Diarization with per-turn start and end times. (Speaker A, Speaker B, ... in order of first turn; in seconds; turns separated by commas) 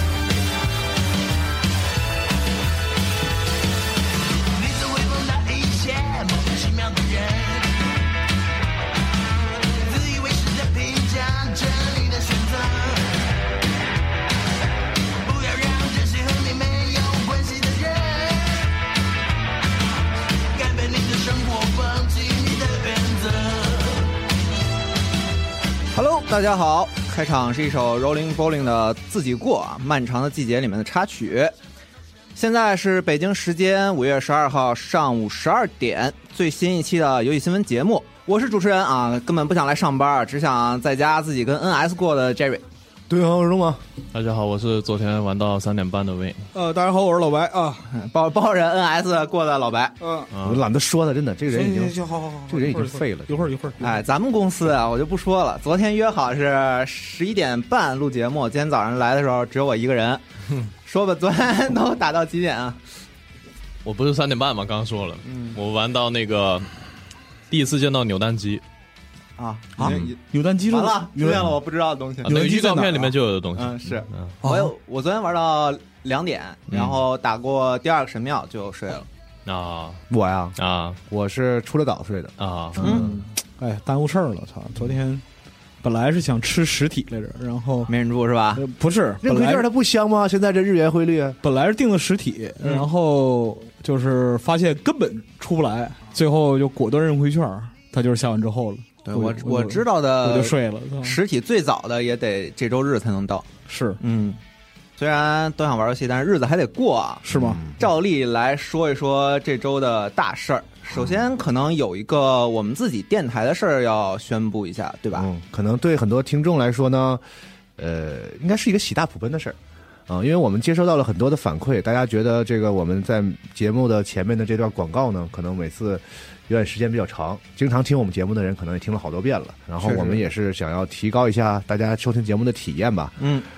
Speaker A: 4.5-7.8, Speaker A: 9.8-13.2, Speaker A: 15.2-18.7, Speaker A: 20.5-24.1, Speaker B: 25.9-31.5, Speaker B: 32.3-42.6, Speaker C: 43.1-43.8, Speaker D: 44.1-46.5, Speaker E: 46.5-47.9, Speaker B: 47.9-50.0, Speaker E: 50.0-50.3, Speaker D: 50.3-50.6, Speaker C: 50.4-53.5, Speaker E: 51.5-54.0, Speaker B: 53.8-60.2, Speaker B: 60.8-62.8, Speaker D: 63.8-66.7, Speaker B: 65.2-65.6, Speaker D: 67.5-68.6, Speaker B: 69.4-72.3, Speaker E: 69.8-71.5, Speaker D: 72.2-74.3, Speaker E: 72.2-73.1, Speaker B: 73.5-79.1, Speaker E: 74.4-74.7, Speaker D: 76.7-77.0, Speaker D: 79.4-80.0, Speaker C: 80.1-80.5, Speaker D: 80.6-81.0, Speaker C: 81.1-83.2, Speaker D: 82.4-82.8, Speaker B: 82.8-83.1, Speaker E: 82.8-85.2, Speaker E: 85.8-87.9, Speaker B: 87.9-88.6, Speaker E: 88.5-89.6, Speaker C: 89.2-91.4, Speaker E: 91.4-101.2, Speaker B: 99.0-103.5, Speaker E: 103.7-104.0, Speaker B: 104.0-104.4, Speaker B: 105.0-107.2, Speaker E: 107.2-107.6, Speaker C: 107.3-107.9, Speaker B: 107.8-115.3, Speaker C: 115.1-117.2, Speaker C: 117.8-119.5, Speaker C: 120.1-133.3, Speaker B: 129.8-130.2, Speaker B: 133.2-133.5